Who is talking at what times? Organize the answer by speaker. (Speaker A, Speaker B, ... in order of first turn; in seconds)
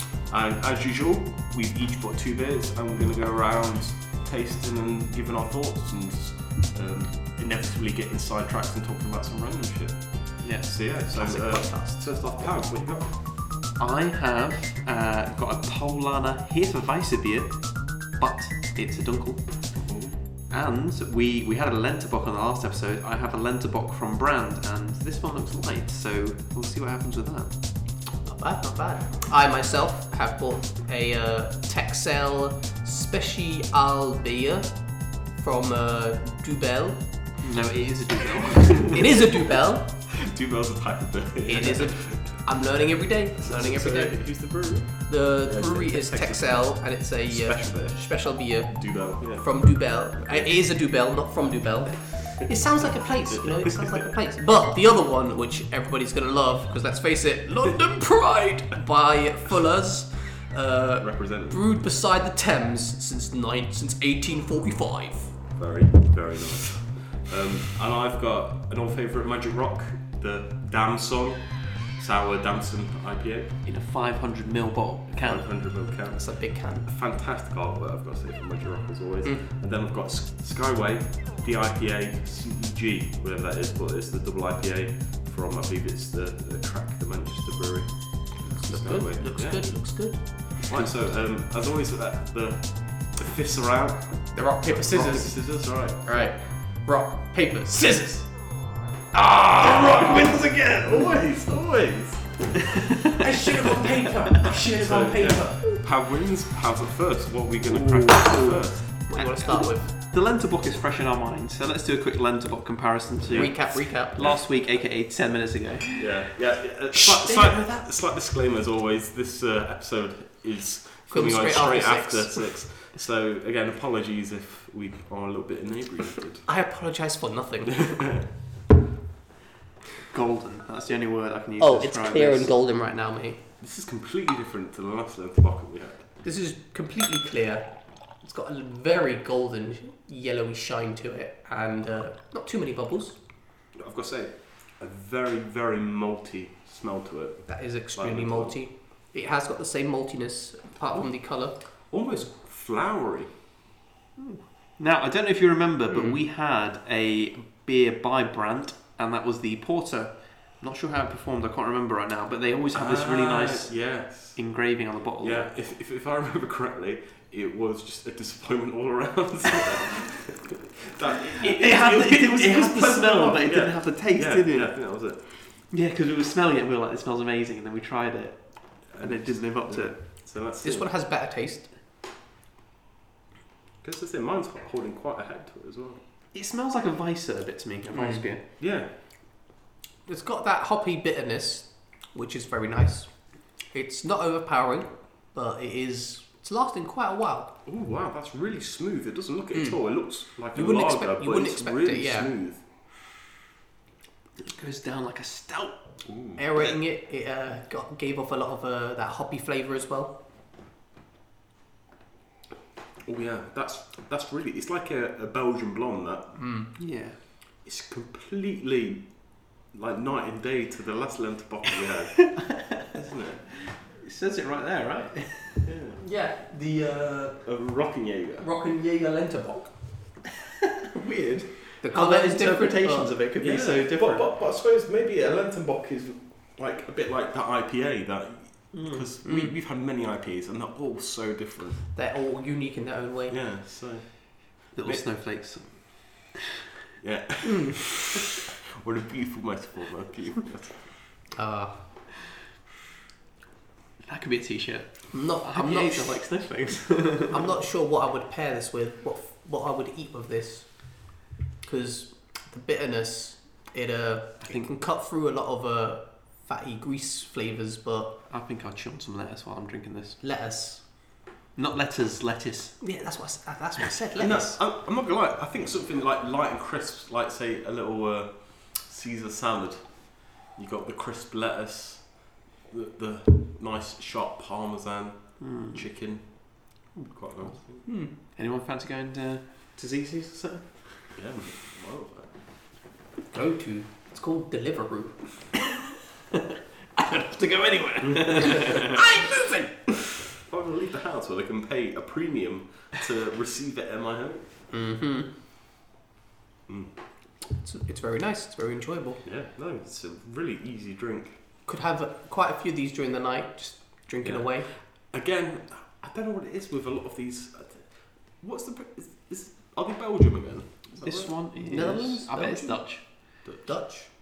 Speaker A: 0.2-13.2, 19.8-20.2, 40.1-42.5, 43.4-48.2, 48.7-49.7, 50.2-50.6, 52.8-54.1, 61.0-61.7, 65.6-73.5, 75.2-96.3, 99.1-102.6, 104.5-108.9, 113.2-114.4, 116.0-126.5, 127.8-128.3, 133.6-136.0, 143.7-148.6, 151.9-153.3, 155.9-156.2, 162.7-164.4, 165.2-175.3, 178.9-180.9, 183.8-186.0, 188.6-188.9, 197.7-202.6, 206.1-206.4, 213.0-216.4, 217.6-223.5, 225.7-226.0, 227.3-228.5, 233.4-241.8, 243.3-245.0, 247.0-250.9, 274.2-287.9, 291.1-292.3, 300.3-304.4, 306.7-306.9, 309.2-311.4, 315.1-321.4
Speaker B: 10.4-10.8, 13.8-19.8, 20.5-27.6, 37.4-39.1, 73.7-75.5, 107.8-116.2, 130.1-132.5, 154.2-165.4, 171.4-180.3, 186.3-188.4, 204.4-206.0, 216.8-217.2, 222.4-222.8, 223.6-225.7, 230.9-234.3, 238.7-239.1, 244.7-246.4, 254.1-257.5, 264.4-264.7, 268.3-270.2, 271.6-272.8, 285.4-285.9, 287.0-291.1, 297.0-299.0, 321.0-323.4
Speaker C: 11.1-12.1, 28.2-37.0, 38.9-39.9, 41.5-44.3, 45.0-65.4, 76.2-76.9, 88.4-90.6, 94.3-98.3, 103.2-105.7, 107.8-109.9, 113.3-114.2, 116.9-117.8, 121.1-122.5, 126.5-128.1, 131.6-133.4, 136.2-137.7, 138.2-143.2, 147.5-151.6, 180.6-181.7, 187.9-188.2, 190.1-193.1, 193.7-197.5, 200.5-202.3, 206.4-210.1, 216.3-216.7, 226.0-227.4, 228.4-229.8, 231.8-233.1, 239.2-239.5, 241.9-243.4, 247.4-247.8, 251.3-251.8, 255.1-256.2, 257.3-268.1, 270.2-270.8, 272.8-274.6, 287.9-288.1, 293.3-295.2, 298.4-299.9, 304.7-305.3, 307.6-309.2, 311.7-314.7, 321.7-324.1